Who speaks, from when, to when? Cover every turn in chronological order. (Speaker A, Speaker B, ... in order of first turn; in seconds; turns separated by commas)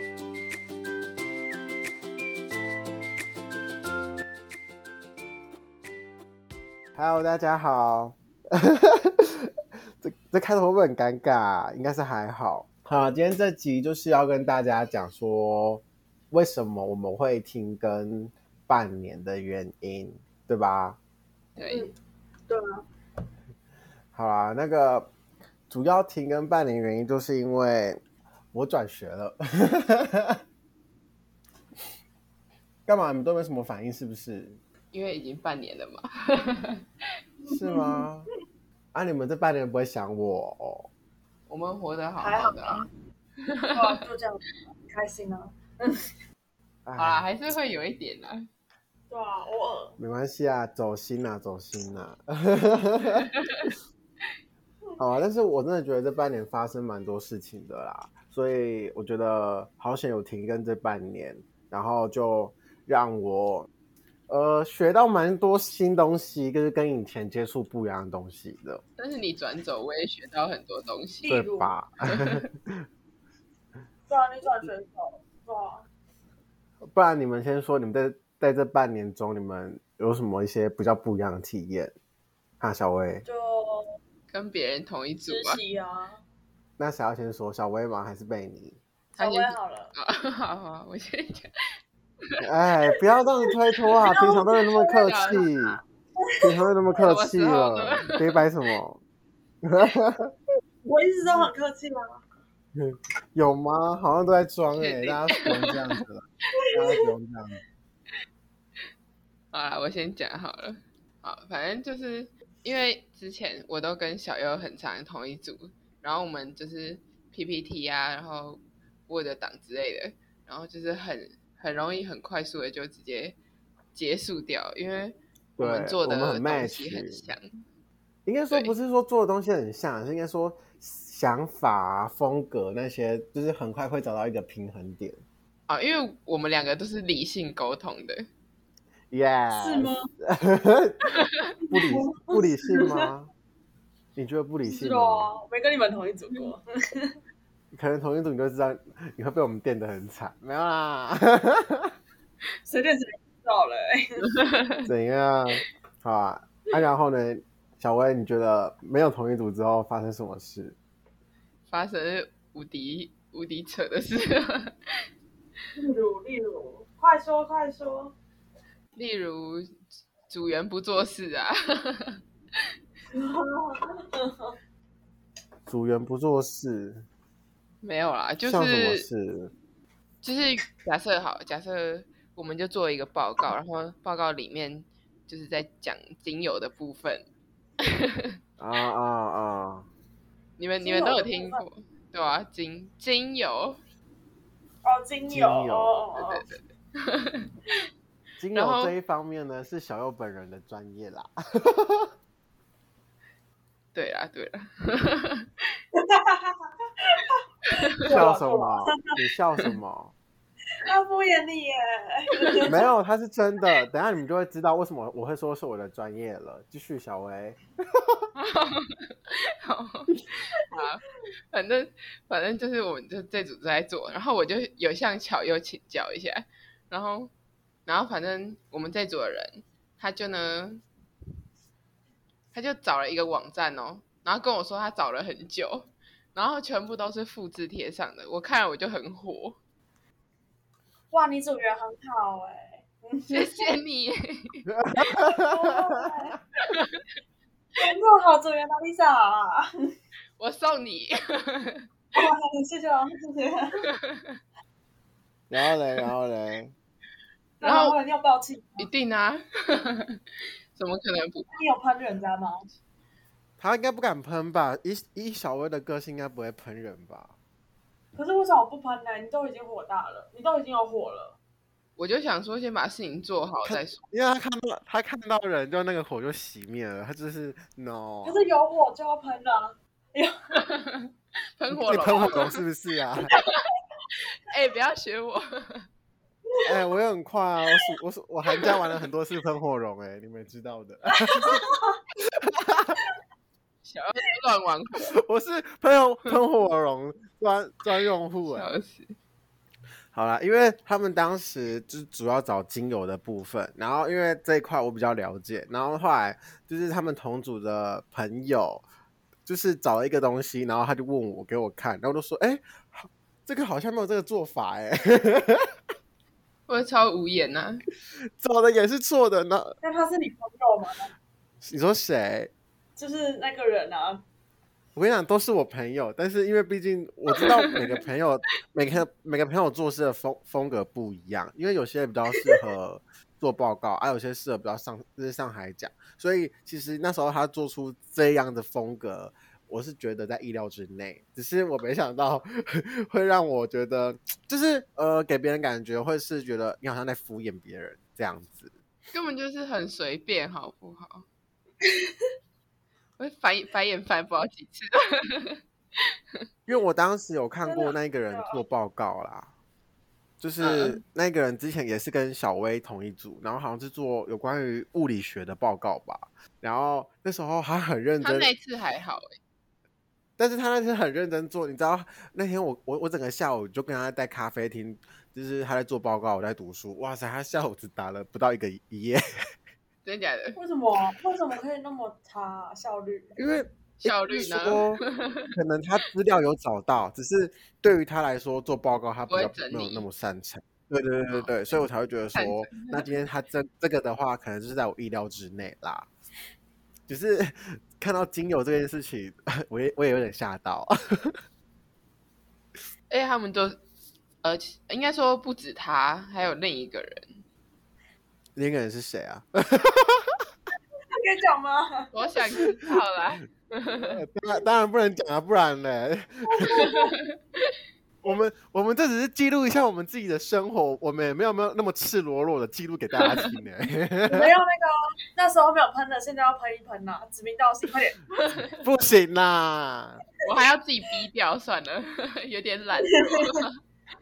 Speaker A: 7.0-21.0, Speaker B: 21.6-21.9, Speaker C: 21.7-21.9, Speaker C: 22.5-22.8, Speaker A: 24.1-25.1, Speaker A: 25.7-28.0, Speaker A: 28.5-30.4, Speaker A: 32.9-34.6, Speaker B: 34.9-36.8, Speaker C: 37.4-38.1, Speaker A: 37.5-38.3, Speaker A: 38.9-40.9, Speaker B: 41.5-42.8, Speaker C: 42.2-42.9, Speaker B: 43.4-44.0, Speaker C: 43.7-46.0, Speaker A: 46.9-47.3, Speaker B: 47.0-48.5, Speaker C: 49.1-50.0, Speaker A: 50.0-53.3, Speaker B: 53.4-53.7, Speaker A: 55.0-63.7, Speaker A: 64.3-68.8, Speaker B: 69.0-71.4, Speaker C: 71.2-71.7, Speaker A: 71.3-72.8, Speaker C: 74.1-75.8, Speaker A: 76.9-81.9, Speaker A: 82.6-83.2, Speaker C: 83.2-83.9, Speaker B: 84.3-85.6, Speaker C: 85.3-86.2, Speaker A: 86.8-88.8, Speaker C: 89.1-89.9, Speaker B: 89.2-91.5, Speaker A: 92.4-95.8, Speaker C: 94.0-96.5, Speaker B: 94.9-95.4, Speaker A: 96.4-99.0, Speaker B: 96.9-98.4, Speaker A: 99.6-100.3, Speaker C: 100.8-102.2, Speaker A: 102.7-107.6, Speaker B: 104.8-105.8, Speaker B: 109.5-123.4, Speaker B: 123.9-127.6, Speaker A: 125.6-127.2, Speaker A: 128.2-135.2, Speaker B: 135.7-138.3, Speaker A: 139.1-141.2, Speaker C: 139.6-140.1, Speaker C: 141.7-143.1, Speaker A: 141.7-143.3, Speaker A: 144.2-145.3, Speaker C: 144.7-147.2, Speaker A: 147.7-151.9, Speaker C: 152.7-154.3, Speaker B: 154.3-154.9, Speaker A: 154.9-160.8, Speaker B: 161.7-164.8, Speaker C: 165.8-168.1, Speaker B: 168.9-169.7, Speaker B: 170.3-172.2, Speaker C: 173.1-174.6, Speaker A: 175.7-177.1, Speaker B: 177.8-179.1, Speaker A: 178.4-179.5, Speaker B: 180.2-187.2, Speaker B: 187.8-188.3, Speaker A: 188.6-189.9, Speaker B: 190.6-193.8, Speaker C: 190.8-191.6, Speaker C: 194.8-196.4, Speaker A: 195.3-195.9, Speaker B: 196.2-197.5, Speaker A: 198.4-202.1, Speaker B: 198.5-198.9, Speaker B: 203.9-205.5, Speaker C: 205.9-209.1, Speaker B: 207.7-208.1, Speaker A: 208.1-210.1, Speaker C: 210.8-212.8, Speaker B: 212.4-212.7, Speaker A: 212.7-218.3, Speaker B: 218.3-227.3, Speaker B: 227.8-230.8, Speaker B: 232.5-239.6, Speaker C: 241.1-243.7, Speaker B: 243.3-244.6, Speaker A: 244.7-246.1, Speaker C: 245.2-246.4, Speaker B: 246.7-247.0, Speaker C: 247.8-249.7, Speaker B: 250.4-251.9, Speaker C: 252.1-253.8, Speaker B: 253.8-254.4, Speaker A: 255.5-256.7, Speaker C: 257.6-258.9, Speaker B: 257.6-257.9, Speaker B: 258.8-260.2, Speaker B: 260.7-261.5, Speaker C: 261.5-262.7, Speaker A: 263.6-267.3, Speaker C: 268.1-271.4, Speaker B: 272.0-274.0, Speaker A: 273.6-278.4, Speaker C: 278.2-280.5, Speaker B: 280.6-282.6, Speaker A: 281.7-283.3, Speaker B: 283.3-285.9, Speaker A: 286.6-291.6, Speaker C: 291.3-292.0, Speaker A: 292.3-293.0, Speaker B: 293.8-295.1, Speaker A: 295.1-298.7, Speaker B: 298.5-299.1, Speaker A: 300.1-308.8, Speaker A: 309.4-315.7, Speaker B: 316.7-317.8, Speaker A: 318.4-319.8, Speaker C: 319.8-321.1, Speaker A: 321.6-322.5, Speaker C: 323.0-324.2, Speaker A: 324.9-348.7, Speaker B: 349.1-351.2, Speaker B: 353.2-355.6, Speaker A: 356.7-359.5, Speaker C: 357.6-358.6, Speaker A: 360.4-368.5, Speaker B: 360.6-361.0, Speaker B: 368.2-369.4, Speaker A: 370.4-379.2, Speaker B: 380.0-380.6, Speaker C: 380.6-383.4, Speaker A: 383.4-385.0, Speaker B: 384.0-385.5, Speaker A: 385.6-396.1, Speaker B: 389.3-390.1, Speaker B: 391.3-391.8, Speaker B: 392.3-393.1, Speaker A: 397.1-401.4, Speaker B: 403.1-403.8, Speaker B: 404.4-407.4, Speaker A: 408.6-410.3, Speaker C: 411.1-412.2, Speaker B: 412.1-414.2, Speaker A: 414.0-416.8, Speaker C: 416.5-417.1, Speaker B: 416.7-417.7, Speaker A: 418.2-424.5, Speaker C: 424.3-428.3, Speaker A: 428.8-430.2, Speaker B: 430.4-433.7, Speaker C: 433.0-433.6